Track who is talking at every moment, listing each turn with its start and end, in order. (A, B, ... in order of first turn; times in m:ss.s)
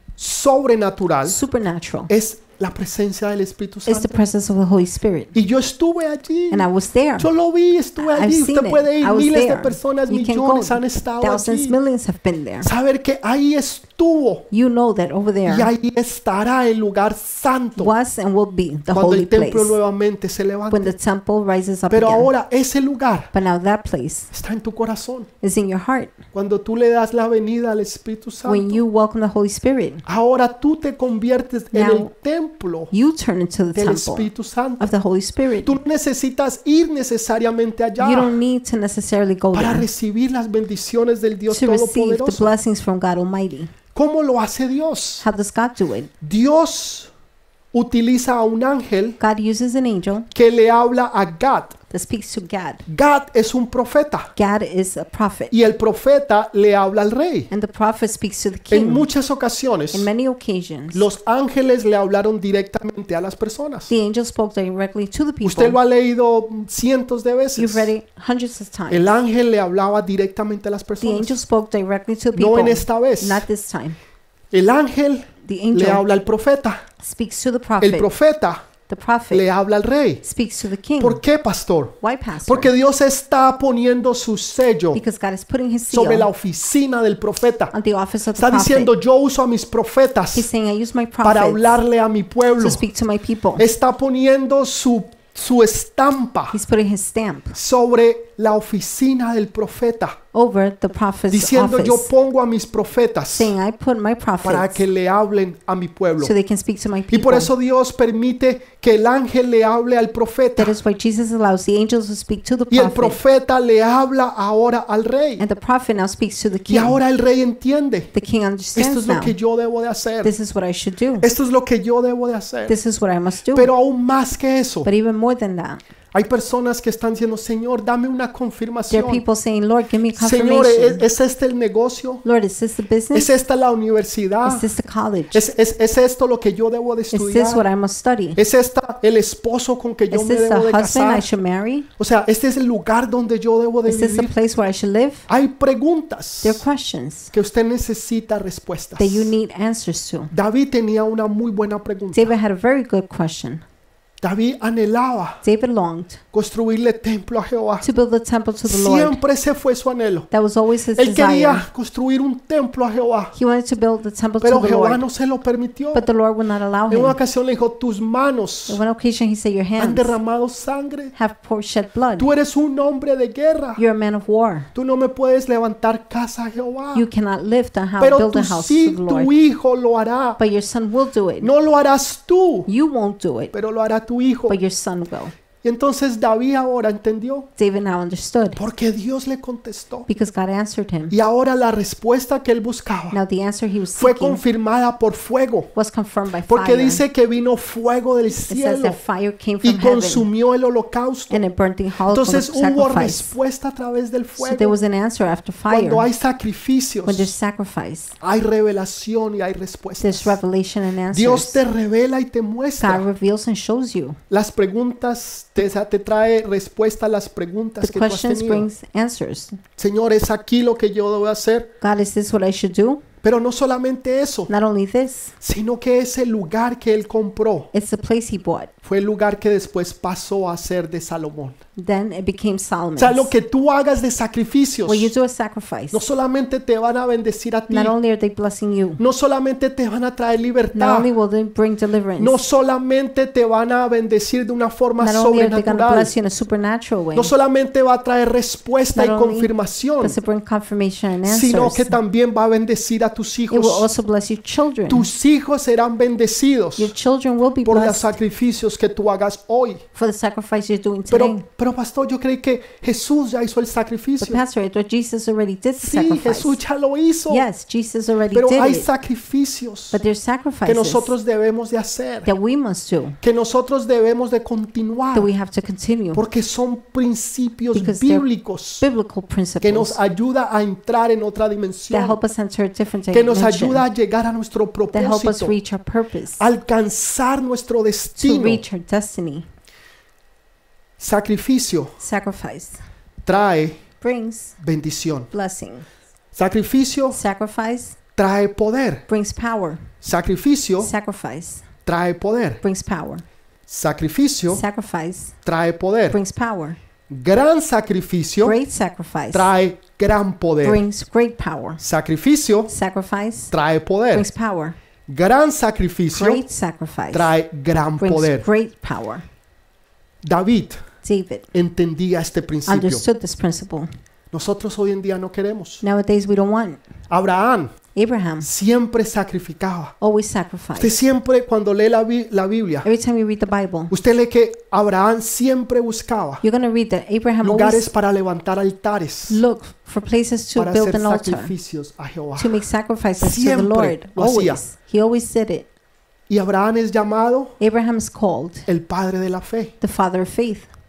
0:00.2-0:01.4 A
0:01.2-0:02.1 B
0:02.1-0:04.2 A
0:03.9-0:05.3 B
0:05.3-0:06.6 A
0:06.5-0:07.3 B
0:07.2-0:11.8 A
0:08.0-0:12.7 B
0:12.6-0:14.5 A
0:14.5-0:15.7 B
0:15.5-0:17.9 A
0:17.8-0:19.8 B
0:18.9-0:20.9 A
0:20.7-0:22.3 B
0:21.9-0:23.3 A
0:23.3-0:24.3 B
0:24.3-0:25.3 A
0:25.4-0:26.2 B
0:26.3-0:28.8 A
0:28.4-0:30.0 B
0:30.0-0:32.9 A
0:31.7-0:32.1 B
0:32.9-0:35.7 B
0:33.7-0:34.9 A
0:35.6-0:38.4 A
0:38.0-0:39.9 B
0:39.5-0:42.5 A
0:41.5-0:43.7 B
0:43.9-0:45.2 A
0:45.2-0:46.1 B
0:46.2-0:47.1 A
0:47.7-0:49.2 A
0:49.2-0:50.3 B
0:50.3-0:51.8 A
0:51.9-0:52.8 B
0:52.8-0:54.3 A
0:54.3-0:55.6 B
0:55.5-0:57.5 A
0:57.5-0:59.1 B
0:58.7-1:00.1 A
0:59.9-1:01.0 B
1:00.9-1:03.9 A
1:03.9-1:05.8 B
1:05.4-1:07.9 A
1:07.6-1:09.1 B
1:08.9-1:11.4 A
1:11.0-1:14.0 B
1:12.3-1:13.4 A
1:14.5-1:16.8 A
1:15.4-1:16.0 B
1:17.0-1:18.1 B
1:17.8-1:18.6 A
1:18.9-1:19.4 B
1:19.3-1:20.2 A
1:20.2-1:21.2 B
1:21.0-1:25.0 A
1:22.0-1:22.7 B
1:24.9-1:26.3 B
1:25.9-1:27.7 A
1:27.7-1:28.9 B
1:28.4-1:30.5 A
1:30.3-1:31.8 B
1:31.2-1:32.8 A
1:32.6-1:33.6 B
1:33.6-1:36.6 A
1:36.5-1:37.6 B
1:37.5-1:40.2 A
1:40.3-1:42.1 B
1:41.3-1:43.5 A
1:43.4-1:44.8 B
1:44.4-1:46.3 A
1:46.2-1:47.5 B
1:47.1-1:50.8 A
1:50.6-1:53.2 B
1:52.7-1:55.4 A
1:55.4-1:57.0 B
1:56.7-1:58.1 A
1:58.1-1:59.4 B
1:58.7-2:00.3 A
2:00.2-2:01.3 B
2:01.2-2:02.8 A
2:02.7-2:03.7 B
2:03.5-2:04.9 A
2:04.8-2:05.8 B
2:06.1-2:09.2 A
2:08.9-2:11.0 B
2:10.1-2:12.2 A
2:12.2-2:13.3 B
2:13.1-2:14.6 A
2:14.4-2:15.5 B
2:15.3-2:17.6 A
2:17.1-2:18.4 B
2:18.4-2:21.3 A
2:20.1-2:21.9 B
2:22.0-2:24.3 A
2:23.8-2:25.3 B
2:25.3-2:26.6 A
2:26.4-2:27.3 B
2:27.3-2:29.3 A
2:29.0-2:30.3 B
2:30.3-2:32.3 A
2:32.1-2:33.6 B
2:34.2-2:35.4 A
2:35.4-2:36.2 B
2:36.3-2:37.8 A
2:37.8-2:39.2 B
2:38.7-2:40.3 A
2:40.3-2:41.7 B
2:41.0-2:43.3 A
2:43.3-2:45.0 B
2:44.4-2:46.0 A
2:45.9-2:47.2 B
2:46.9-2:48.8 A
2:48.7-2:50.2 B
2:49.8-2:51.1 A
2:51.1-2:52.3 B
2:52.2-2:53.8 A
2:53.8-2:54.7 B
2:54.7-2:57.1 A
2:56.9-2:59.3 B
2:58.0-3:00.4 A
3:00.4-3:01.5 B
3:01.4-3:02.7 A
3:02.7-3:03.5 B
3:03.5-3:04.6 A
3:04.5-3:05.3 B
3:05.6-3:07.5 A
3:07.6-3:08.6 B
3:08.6-3:10.1 A
3:10.1-3:11.1 B
3:11.1-3:13.2 A
3:13.1-3:14.4 B
3:14.0-3:15.7 A
3:15.8-3:17.0 B
3:16.5-3:19.0 A
3:18.5-3:20.3 B
3:19.6-3:21.4 A
3:21.3-3:23.3 B
3:22.1-3:24.8 A
3:24.4-3:26.1 B
3:25.7-3:27.3 A
3:27.0-3:28.2 B
3:28.2-3:30.4 A
3:30.0-3:31.6 B
3:31.1-3:33.0 A
3:32.8-3:34.2 B
3:34.3-3:38.7 A
3:37.8-3:39.6 B
3:39.8-3:41.7 A
3:41.8-3:43.0 B
3:43.2-3:44.5 A
3:44.5-3:45.3 B
3:45.4-3:47.7 A
3:47.7-3:48.7 B
3:48.8-3:51.6 A
3:51.8-3:53.3 B
3:53.0-3:55.1 A
3:54.8-3:56.1 B
3:55.9-3:57.9 A
3:57.7-3:59.0 B
3:59.0-4:01.1 A
4:00.7-4:02.4 B
4:02.2-4:06.1 A
4:05.0-4:07.3 B
4:07.1-4:10.2 A
4:08.9-4:09.5 B
4:10.0-4:12.0 B
4:11.2-4:13.9 A
4:13.5-4:15.1 B
4:14.9-4:16.9 A
4:16.8-4:18.2 B
4:17.6-4:19.8 A
4:19.9-4:21.4 B
4:21.1-4:24.4 A
4:24.2-4:26.6 B
4:25.8-4:27.4 A
4:27.3-4:28.9 B
4:28.3-4:30.0 A
4:29.9-4:31.1 B
4:30.6-4:32.3 A
4:32.2-4:33.2 B
4:33.2-4:35.3 A
4:35.1-4:36.2 B
4:36.1-4:38.9 A
4:37.7-4:38.2 B
4:38.8-4:40.0 B
4:39.6-4:42.2 A
4:41.9-4:43.8 B
4:43.1-4:45.5 A
4:44.9-4:46.4 B
4:46.4-4:48.6 A
4:48.2-4:49.5 B
4:51.0-4:52.0 A
4:52.0-4:52.8 B
4:53.2-4:53.8 A
4:54.0-4:54.6 B
4:54.6-4:55.3 A
4:55.3-4:55.8 B
4:56.3-4:57.2 A
4:57.1-4:58.0 B
4:58.2-4:59.0 A
4:59.1-4:59.8 B
5:00.0-5:00.9 A
5:00.8-5:01.6 B
5:01.8-5:02.6 A
5:02.6-5:03.2 B
5:03.7-5:04.6 A
5:04.5-5:05.4 B
5:05.4-5:06.2 A
5:06.1-5:06.8 B
5:07.1-5:08.6 A
5:08.4-5:09.5 B
5:09.3-5:10.8 A
5:10.6-5:11.8 B
5:11.8-5:12.7 A
5:12.7-5:13.5 B
5:13.5-5:14.2 A
5:14.1-5:14.8 B
5:15.1-5:16.4 A
5:16.1-5:17.3 B
5:17.1-5:18.4 A
5:18.0-5:19.2 B
5:20.2-5:20.8 A
5:21.0-5:21.5 B
5:21.5-5:23.0 A
5:22.6-5:23.9 B
5:24.3-5:25.8 A
5:25.8-5:26.8 B
5:27.1-5:27.7 A
5:27.9-5:28.5 B
5:28.4-5:29.9 A
5:30.0-5:31.0 B
5:30.8-5:32.9 A
5:32.8-5:33.9 B
5:33.9-5:36.4 A
5:36.4-5:37.9 B
5:37.4-5:39.4 A
5:39.3-5:41.5 B
5:40.6-5:42.6 A
5:42.4-5:45.6 B
5:43.2-5:44.6 A
5:46.3-5:47.6 A
5:47.6-5:48.6 B
5:48.7-5:49.7 A
5:49.8-5:50.7 B